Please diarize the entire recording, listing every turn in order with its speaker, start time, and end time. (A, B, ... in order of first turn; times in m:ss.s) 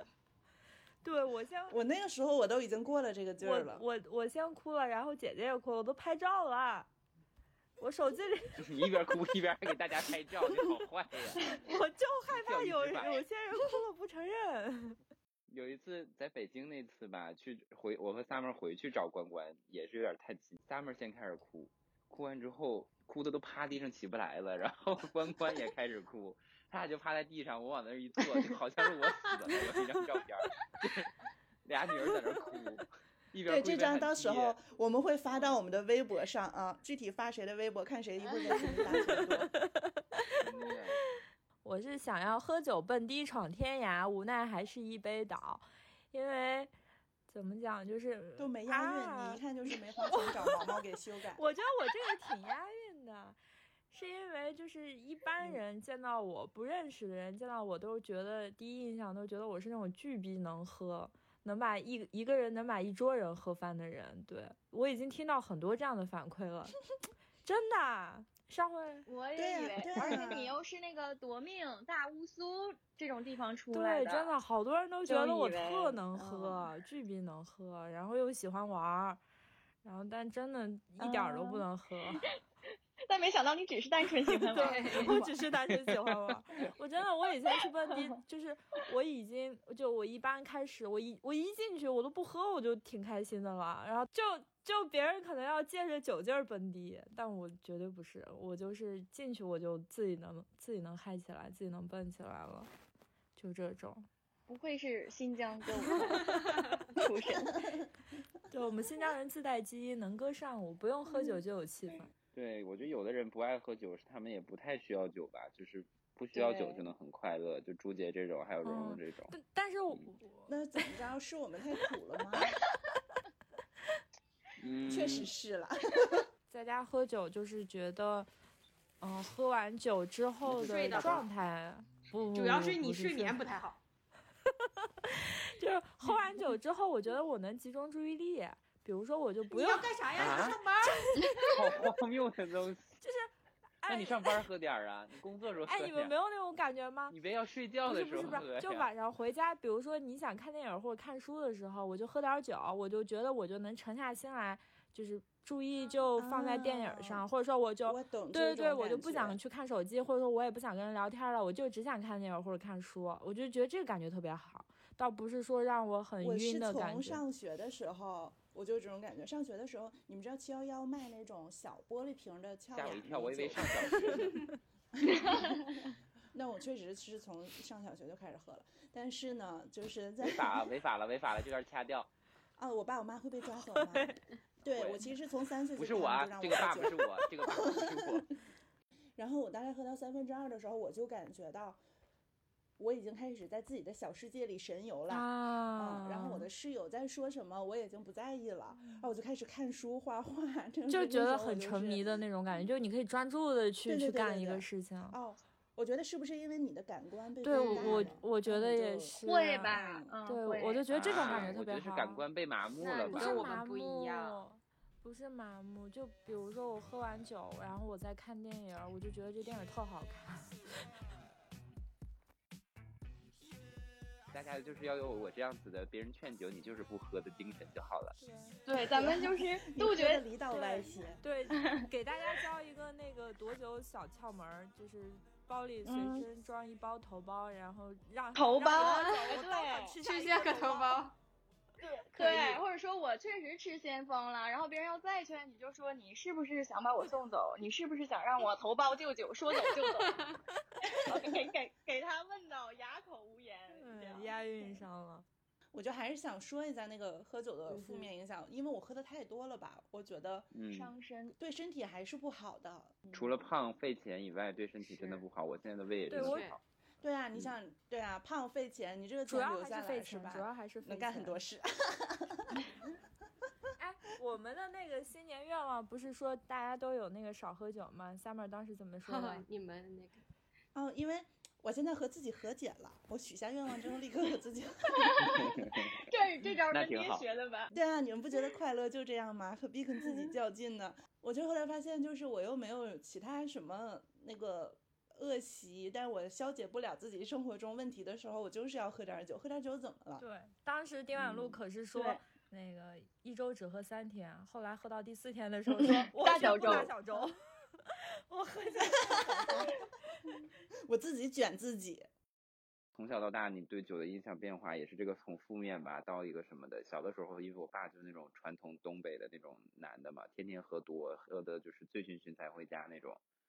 0:01.0-0:01.8 A
0:01.7-0:03.8 B
0:03.4-0:06.9 A
0:07.8-0:08.6 A
0:08.6-0:11.6 C
0:11.5-0:15.0 A
0:12.3-0:13.2 C
0:15.5-0:31.1 C
0:31.6-0:34.6 C
0:33.5-0:39.5 B
0:39.6-0:40.2 A
0:40.4-0:41.0 C
0:41.6-0:46.7 A
0:47.3-0:49.4 A
0:48.4-0:51.4 B
0:50.1-0:50.8 A
0:51.4-0:53.4 A
0:53.9-1:06.8 A
1:07.4-1:09.1 A
1:09.1-1:14.3 D
1:09.3-1:10.5 B
1:13.7-1:19.2 A
1:15.0-1:16.7 D
1:19.8-1:22.2 A
1:21.0-1:22.3 D
1:23.1-1:25.3 D
1:24.3-1:42.7 A
1:24.5-1:25.1 E
1:27.5-1:28.0 D
1:43.4-1:44.1 A
1:44.5-1:47.6 D
1:45.9-1:46.3 A
1:48.5-1:52.1 A
1:52.3-1:59.3 C
1:56.3-1:56.9 D
1:58.6-2:00.5 A
2:00.5-2:02.6 B
2:04.6-2:05.3 C
2:04.8-2:06.2 B
2:06.5-2:08.3 A
2:09.0-2:13.4 A
2:10.5-2:11.2 C
2:10.6-2:11.2 E
2:12.3-2:13.8 E
2:15.1-2:19.9 A
2:19.5-2:21.2 E
2:20.2-2:20.6 C
2:20.8-2:21.6 A
2:21.5-2:22.9 C
2:23.0-2:23.3 A
2:23.8-2:24.4 A
2:23.9-2:26.1 C
2:25.6-2:27.1 A
2:27.1-2:28.9 C
2:27.8-2:47.2 A
2:36.2-2:37.2 B
2:37.8-2:39.4 B
2:46.2-2:54.5 B
2:52.7-2:54.4 C
2:55.0-2:55.6 B
2:55.2-2:55.7 D
2:56.3-3:00.6 B
3:00.2-3:02.1 C
3:02.6-3:08.2 B
3:03.8-3:04.1 A
3:04.7-3:05.0 C
3:05.8-3:08.3 C
3:09.2-3:11.8 B
3:12.8-3:22.2 B
3:15.1-3:16.5 A
3:18.8-3:19.0 A
3:20.9-3:25.2 A
3:23.8-3:29.1 B
3:27.4-3:32.2 A
3:27.6-3:28.2 E
3:29.2-3:30.9 D
3:29.7-3:30.1 B
3:30.9-3:33.4 C
3:32.8-3:34.4 E
3:33.1-3:40.5 A
3:44.3-3:48.2 C
3:48.2-3:48.6 A
3:48.6-3:50.2 D
3:48.8-3:51.2 B
3:50.5-4:01.0 A
3:51.5-3:51.9 D
3:55.8-3:56.2 D
3:58.3-4:00.0 D
3:58.8-3:59.3 E
4:00.0-4:01.1 E
4:01.8-4:10.2 D
4:02.1-4:02.6 A
4:10.0-4:10.4 E
4:10.8-4:14.8 D
4:13.8-4:15.2 A
4:15.7-4:20.5 B
4:17.7-4:18.0 E
4:20.5-4:20.9 C
4:20.7-4:21.3 D
4:21.4-4:23.0 B
4:23.1-4:26.5 C
4:26.1-4:26.5 A
4:26.2-4:26.6 E
4:27.0-4:32.6 B
4:29.3-4:31.4 A
4:33.8-4:39.4 A
4:39.0-4:40.2 E
4:40.7-4:45.5 B
4:44.9-4:47.7 D
4:45.2-4:45.9 C
4:46.7-4:47.2 C
4:47.7-5:00.2 B
4:50.0-4:50.3 D
5:00.2-5:07.4 A
5:01.2-5:01.6 C
5:01.9-5:02.2 D
5:05.7-5:07.0 D
5:08.3-5:09.7 A
5:08.8-5:09.7 B
5:10.8-5:12.1 B
5:13.0-5:23.2 C